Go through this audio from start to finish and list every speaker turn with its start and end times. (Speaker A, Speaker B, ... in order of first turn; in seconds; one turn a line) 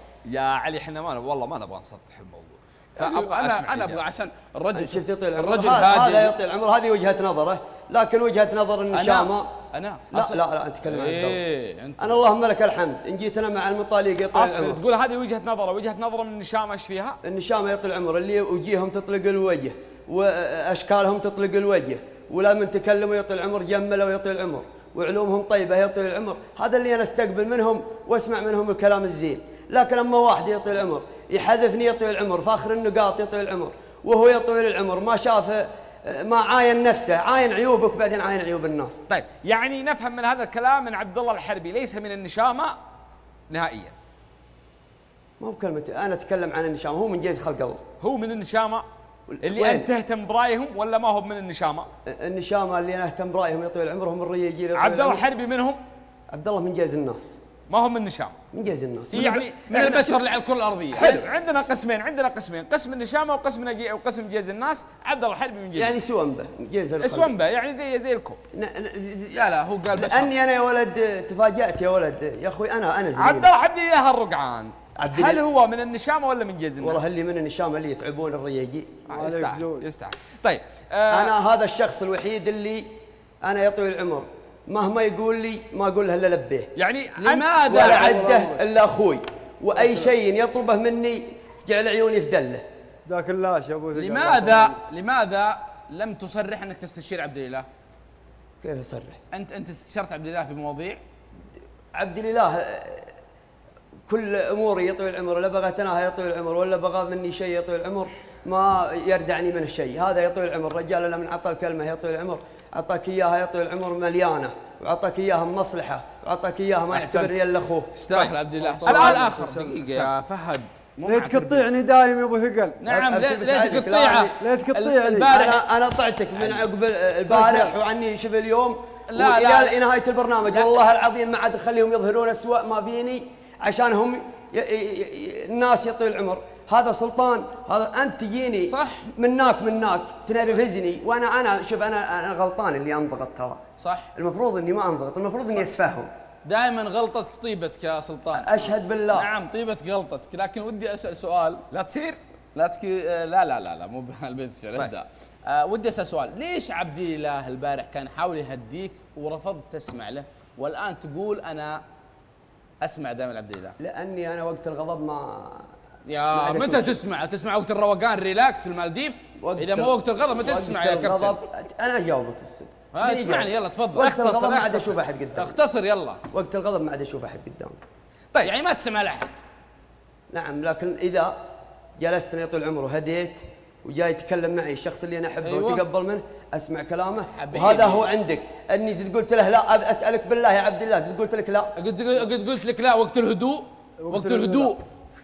Speaker A: 0.2-4.0
Speaker B: 3.0-6.4
Speaker C: 4.7-9.5
Speaker B: 8.9-12.2
Speaker C: 10.1-11.4
Speaker C: 12.0-14.8
Speaker A: 14.3-17.2
Speaker C: 17.2-39.0
Speaker A: 39.1-42.8
Speaker A: 43.5-43.9
Speaker C: 45.4-47.8
Speaker A: 48.0-48.8
Speaker C: 49.3-49.9
Speaker A: 49.4-51.9
Speaker C: 52.1-55.2
Speaker A: 54.7-55.8
Speaker C: 56.3-57.4
Speaker A: 57.7-58.4
Speaker C: 58.5-59.5
Speaker A: 59.1-60.2
Speaker B: 59.1-61.2
Speaker A: 60.9-66.0
Speaker C: 65.8-67.3
Speaker A: 67.0-68.4
Speaker C: 68.5-69.4
Speaker B: 69.3-70.3
Speaker C: 69.9-73.5
Speaker A: 73.2-77.0
Speaker C: 75.0-75.4
Speaker C: 76.8-79.0
Speaker D: 79.1-79.8
Speaker A: 79.1-81.3
Speaker C: 81.1-82.8
Speaker C: 83.4-86.7
Speaker A: 86.8-87.9
Speaker B: 87.2-88.5
Speaker C: 87.7-92.6
Speaker D: 87.8-88.6
Speaker B: 89.8-90.1
Speaker D: 93.0-94.8
Speaker B: 93.9-97.7
Speaker C: 98.6-99.2
Speaker B: 99.3-101.0
Speaker C: 101.9-103.1
Speaker C: 104.1-117.9
Speaker A: 116.9-117.3
Speaker B: 118.0-121.7
Speaker A: 118.1-120.1
Speaker D: 118.6-119.8
Speaker D: 121.0-123.2
Speaker B: 122.8-125.6
Speaker C: 122.9-124.3
Speaker D: 124.4-125.3
Speaker C: 125.2-143.6
Speaker B: 126.3-126.6
Speaker D: 127.3-127.7
Speaker B: 129.1-129.8
Speaker B: 130.4-130.8
Speaker B: 138.7-139.0
Speaker B: 143.8-144.1
Speaker C: 144.1-146.1
Speaker B: 146.4-151.6
Speaker C: 148.3-149.3
Speaker A: 151.7-152.2
Speaker B: 152.5-161.8
Speaker B: 162.8-163.7
Speaker C: 163.8-165.7
Speaker B: 166.1-171.4
Speaker C: 166.3-167.0
Speaker C: 169.4-175.6
Speaker B: 172.9-174.1
Speaker A: 174.0-175.0
Speaker B: 175.3-176.2
Speaker C: 176.3-177.8
Speaker B: 178.4-179.4
Speaker C: 180.3-181.3
Speaker C: 182.0-191.7
Speaker B: 185.4-185.8
Speaker B: 187.3-188.1
Speaker B: 191.8-194.8
Speaker D: 194.0-194.8